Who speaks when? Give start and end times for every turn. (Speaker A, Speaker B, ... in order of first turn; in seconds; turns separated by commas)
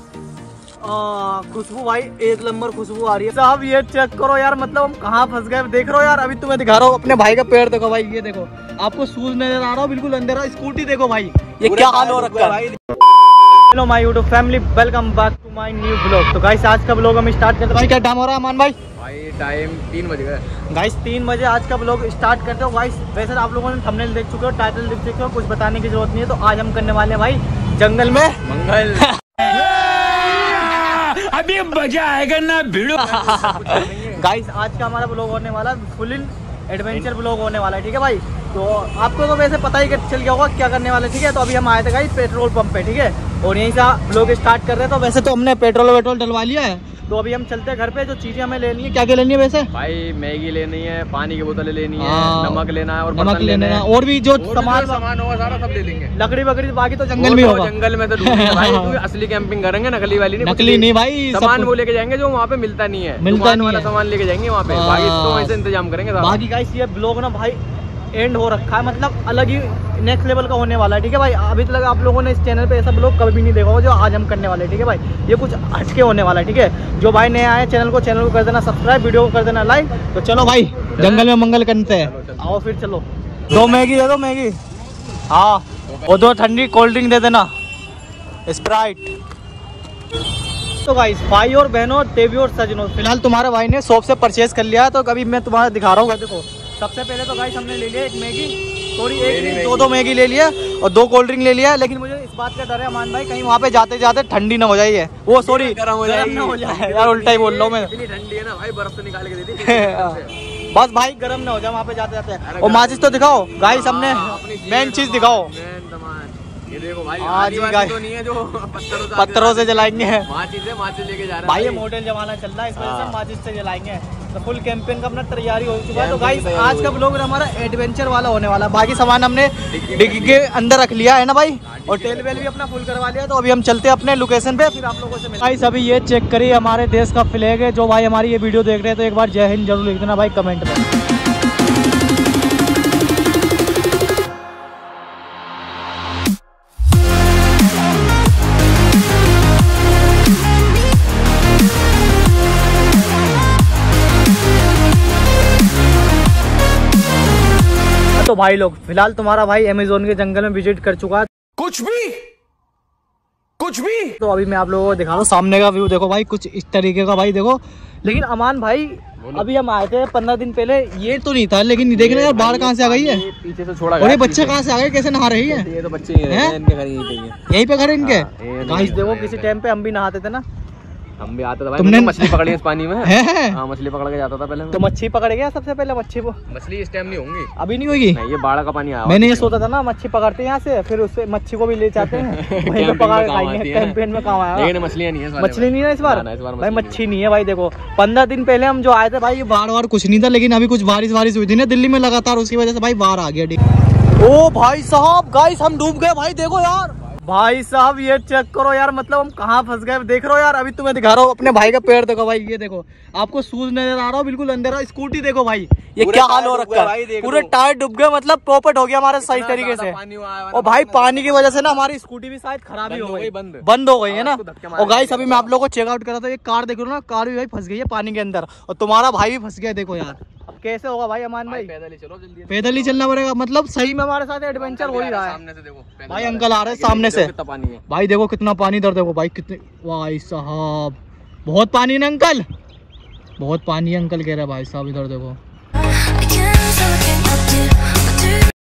Speaker A: 0.8-12.6, Speaker B: 11.6-12.9, Speaker A: 13.6-18.8, Speaker B: 18.9-20.4, Speaker A: 20.7-28.4, Speaker B: 28.4-29.1, Speaker A: 29.1-29.6, Speaker C: 29.6-32.9, Speaker B: 32.9-34.3, Speaker A: 32.9-49.7, Speaker B: 49.7-56.1, Speaker A: 52.0-55.0, Speaker A: 56.1-59.0, Speaker B: 57.1-66.4, Speaker A: 60.4-61.7, Speaker A: 63.2-63.9, Speaker A: 64.7-65.6, Speaker A: 66.2-67.6, Speaker A: 68.1-84.6, Speaker B: 80.9-82.6, Speaker B: 83.5-84.0, Speaker A: 85.3-87.5, Speaker B: 85.9-86.7, Speaker A: 88.5-89.1, Speaker A: 90.8-107.9, Speaker B: 99.2-100.0, Speaker B: 105.3-110.3, Speaker A: 109.6-110.2, Speaker A: 110.7-115.5, Speaker B: 112.4-121.9, Speaker A: 117.2-118.0, Speaker A: 119.0-120.3, Speaker A: 121.4-140.8, Speaker B: 122.7-123.2, Speaker B: 125.9-127.1, Speaker B: 129.7-130.5, Speaker B: 131.6-132.5, Speaker A: 158.2-161.3, Speaker C: 161.6-162.2, Speaker C: 163.6-164.0, Speaker A: 164.1-173.2, Speaker B: 169.2-169.5, Speaker B: 171.9-174.6, Speaker A: 174.0-175.7, Speaker B: 175.4-177.4, Speaker A: 176.3-176.6, Speaker A: 177.5-180.4, Speaker B: 178.0-179.5, Speaker B: 181.2-184.8, Speaker A: 181.8-183.6, Speaker A: 184.7-186.4, Speaker B: 186.5-187.5, Speaker A: 187.6-188.2, Speaker B: 188.1-189.6, Speaker A: 189.1-194.7, Speaker B: 192.0-197.0, Speaker A: 195.4-203.6, Speaker A: 204.2-220.0, Speaker B: 216.0-217.5, Speaker B: 219.2-221.9, Speaker A: 220.5-231.7, Speaker B: 222.8-225.5, Speaker B: 231.4-233.2, Speaker A: 232.5-235.4, Speaker B: 234.5-237.8, Speaker A: 236.1-237.3, Speaker A: 237.9-242.4, Speaker A: 243.4-245.4, Speaker C: 246.0-248.4